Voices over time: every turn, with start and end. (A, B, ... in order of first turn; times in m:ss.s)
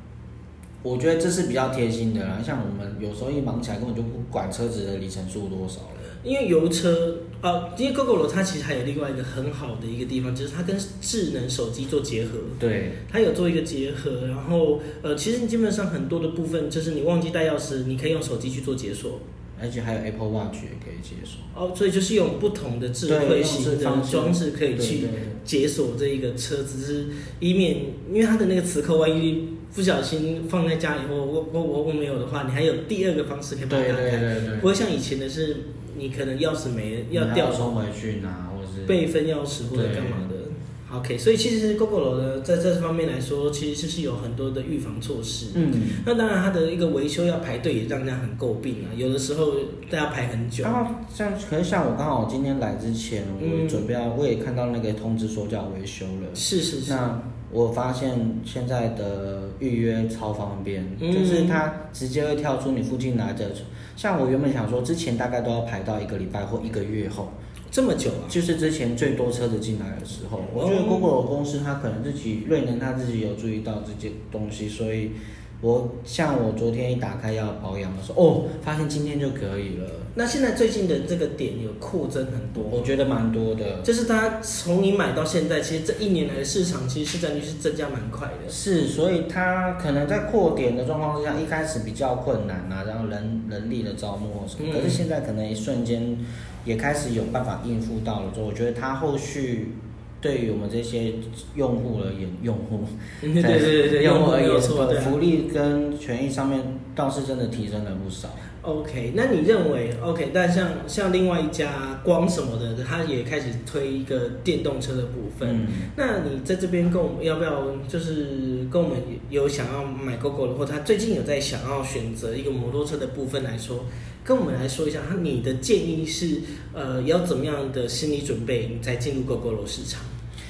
0:00.8-0:06.1 A
0:06.1-0:19.2 B
0:12.6-0:13.0 A
0:19.6-0:21.5 A
0:21.5-0:37.8 B
0:23.1-0:25.4 A
0:33.7-0:34.7 A
0:37.1-0:39.0 A
0:38.9-0:50.8 B
0:39.7-0:40.3 A
0:45.5-0:46.0 A
0:50.6-1:07.3 A
0:53.4-0:53.8 B
0:56.3-0:57.0 B
1:01.0-1:01.6 B
1:07.7-1:08.4 B
1:08.3-1:20.1 A
1:10.5-1:11.1 B
1:20.1-1:22.9 B
1:22.7-1:23.9 A
1:23.8-1:28.6 B
1:28.5-1:48.4 A
1:34.6-1:35.0 B
1:43.2-1:45.2 B
1:48.6-2:10.1 B
1:55.4-1:55.9 A